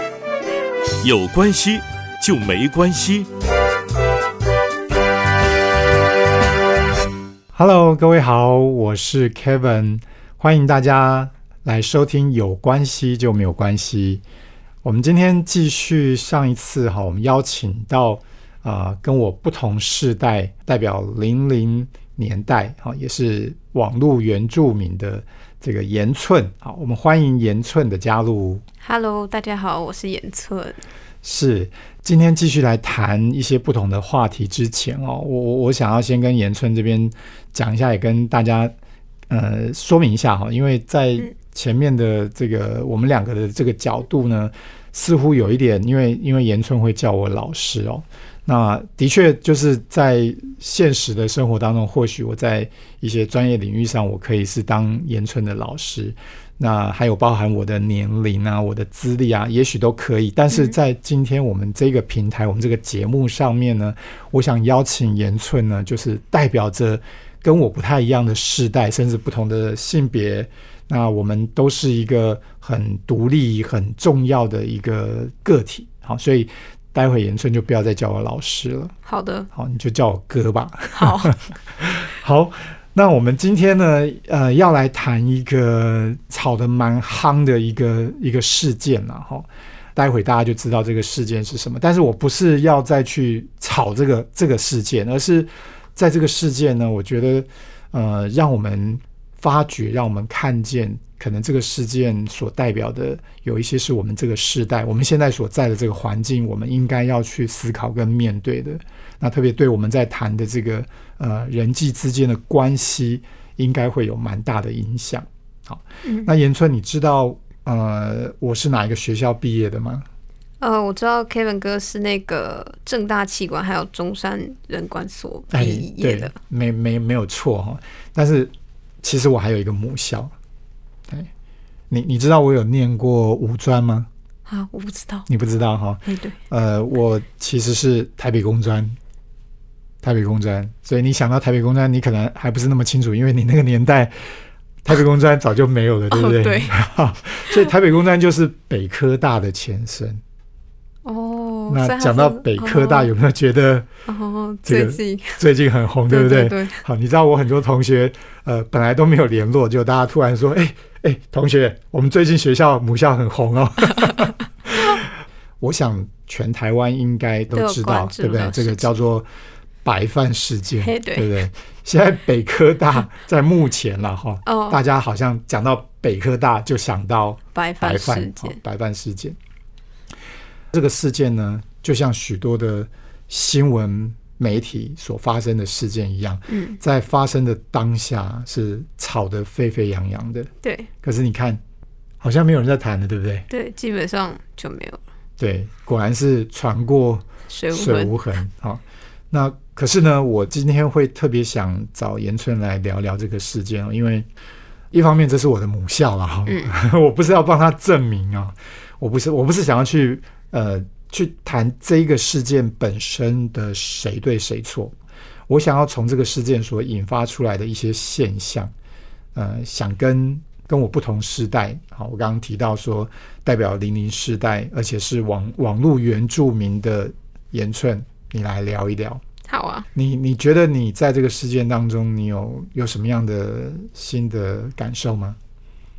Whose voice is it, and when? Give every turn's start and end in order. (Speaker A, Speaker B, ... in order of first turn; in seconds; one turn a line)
Speaker A: 1.0-3.3
Speaker B: 7.5-14.2
Speaker B: 14.8-28.6
Speaker C: 28.8-30.8
Speaker B: 31.2-38.7
Speaker B: 39.3-79.0
Speaker C: 79.1-79.5
Speaker B: 79.5-120.1
Speaker C: 80.9-81.4
Speaker C: 116.0-116.3
Speaker C: 120.6-126.3
Speaker B: 125.5-130.3
Speaker B: 131.9-134.1
Speaker C: 134.5-135.3
Speaker B: 135.3-139.0
Speaker C: 136.1-136.4
Speaker B: 140.0-150.2
Speaker C: 146.1-146.8
Speaker C: 151.1-153.1
Speaker B: 151.7-153.9
Speaker C: 154.1-155.4
Speaker B: 154.7-165.1
Speaker C: 156.1-156.8
Speaker B: 165.6-169.3
Speaker C: 167.5-168.9
Speaker B: 169.8-179.4
Speaker C: 170.8-171.3
Speaker C: 174.4-174.8
Speaker C: 177.6-178.6
Speaker B: 180.7-190.5
Speaker C: 186.5-186.8
Speaker C: 190.6-190.9
Speaker B: 191.0-191.6
Speaker B: 192.2-193.5
Speaker C: 193.5-195.0
Speaker B: 195.4-204.3
Speaker C: 197.5-198.1
Speaker B: 204.9-215.0
Speaker C: 206.5-206.7
Speaker B: 215.5-218.7
Speaker B: 219.3-229.2
Speaker C: 229.5-229.9
Speaker B: 229.9-235.4